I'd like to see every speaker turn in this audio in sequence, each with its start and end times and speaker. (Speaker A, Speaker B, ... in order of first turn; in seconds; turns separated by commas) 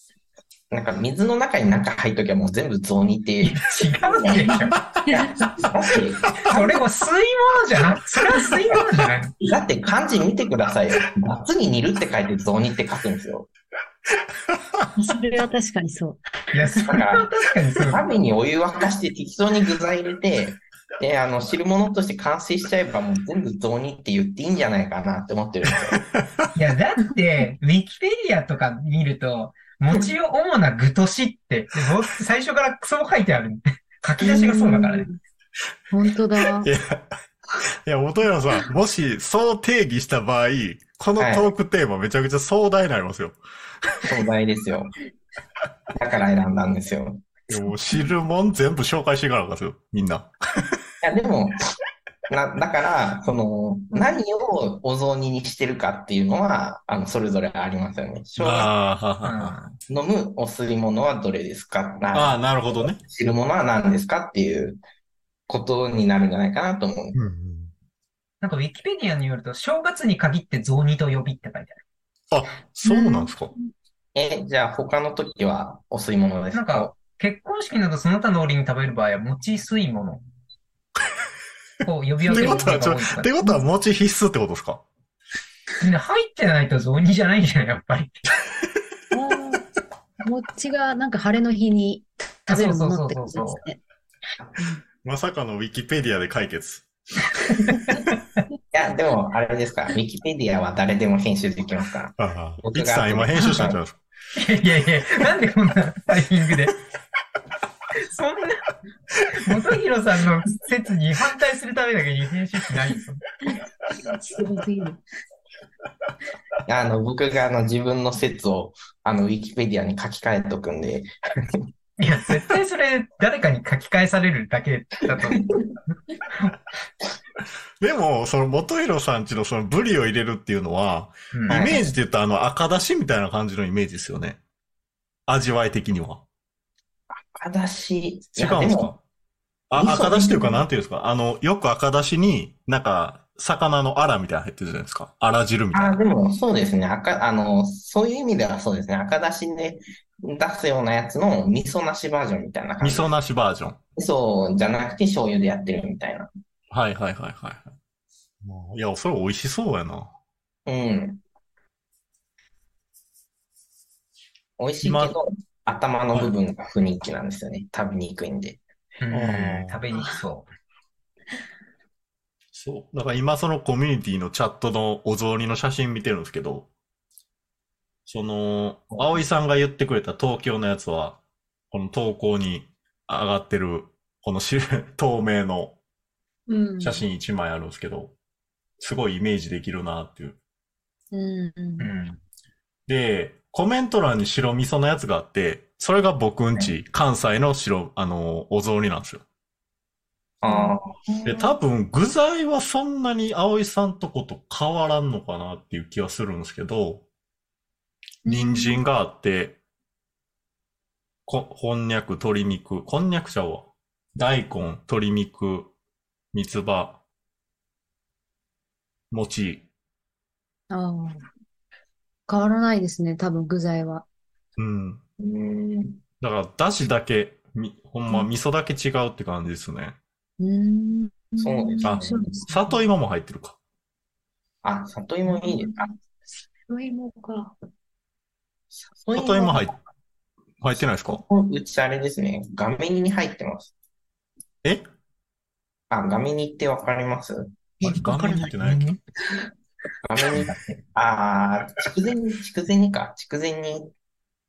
Speaker A: 0.7-6.8, Speaker B: 3.4-4.8, Speaker C: 5.1-5.4, Speaker B: 6.5-9.3, Speaker A: 9.5-13.5, Speaker D: 14.5-14.9, Speaker C: 15.0-16.2, Speaker B: 16.5-18.0, Speaker A: 16.9-17.3, Speaker A: 17.8-26.0, Speaker D: 25.7-26.5, Speaker B: 26.5-35.1, Speaker C: 34.2-35.2, Speaker C: 35.9-36.7, Speaker D: 36.4-37.1, Speaker D: 37.6-44.0, Speaker A: 41.2-41.5, Speaker A: 44.0-45.0, Speaker A: 46.0-47.3, Speaker D: 47.5-50.8, Speaker A: 51.0-51.6, Speaker A: 52.3-58.7, Speaker D: 58.4-59.7, Speaker B: 59.2-59.7, Speaker A: 59.9-62.4, Speaker D: 62.1-63.0, Speaker A: 63.0-64.8, Speaker A: 65.5-67.2, Speaker D: 67.2-67.7, Speaker B: 68.4-71.8, Speaker D: 72.3-73.5, Speaker C: 72.8-73.7, Speaker A: 74.2-77.0, Speaker B: 76.5-80.2, Speaker B: 81.8-83.3, Speaker C: 82.3-82.7, Speaker D: 82.3-84.8, Speaker B: 85.8-88.2, Speaker C: 89.1-89.6, Speaker C: 90.2-93.8, Speaker B: 92.5-93.6, Speaker C: 94.6-94.8, Speaker D: 95.0-96.9, Speaker B: 97.5-98.4, Speaker A: 98.7-103.8, Speaker D: 102.2-104.0, Speaker B: 104.4-106.7, Speaker B: 108.0-108.6, Speaker B: 109.3-113.2, Speaker C: 113.5-115.0, Speaker A: 116.7-121.7, Speaker B: 122.0-125.5, Speaker A: 125.3-125.6, Speaker D: 127.8-134.4, Speaker B: 131.3-131.6, Speaker A: 131.5-131.9, Speaker D: 135.3-136.2, Speaker A: 137.1-138.9, Speaker D: 138.4-139.0, Speaker D: 139.7-146.0, Speaker A: 139.8-140.6, Speaker A: 145.7-153.1, Speaker D: 152.8-153.8, Speaker A: 154.0-156.3, Speaker D: 156.7-157.8, Speaker D: 158.4-160.1, Speaker A: 160.7-161.2, Speaker A: 164.6-168.6, Speaker D: 164.8-165.2, Speaker B: 169.0-170.5, Speaker D: 169.1-169.8, Speaker C: 169.9-170.2, Speaker D: 172.5-176.7, Speaker D: 178.1-181.2, Speaker D: 181.7-185.8, Speaker C: 186.5-187.1, Speaker D: 186.8-188.2, Speaker D: 188.8-190.4, Speaker C: 191.1-191.9, Speaker B: 191.8-192.2, Speaker D: 192.9-199.2, Speaker A: 200.4-200.9, Speaker C: 200.5-201.5, Speaker D: 201.3-207.1, Speaker D: 208.2-209.6, Speaker C: 208.3-208.8, Speaker D: 211.3-215.7, Speaker D: 216.3-217.0, Speaker D: 219.1-219.7, Speaker C: 220.7-221.2, Speaker C: 222.3-224.1, Speaker D: 224.6-225.0, Speaker A: 225.2-226.0, Speaker D: 226.2-230.0, Speaker C: 230.4-232.8, Speaker A: 231.4-232.2, Speaker D: 231.8-233.6, Speaker A: 234.6-235.9, Speaker C: 235.2-235.9, Speaker C: 236.7-237.6, Speaker A: 238.7-239.8, Speaker D: 239.1-239.7, Speaker D: 240.6-241.2, Speaker A: 241.1-243.7, Speaker A: 245.9-247.5, Speaker C: 247.8-248.6, Speaker D: 247.8-249.0, Speaker B: 248.6-248.9, Speaker A: 250.1-253.9, Speaker B: 250.3-250.8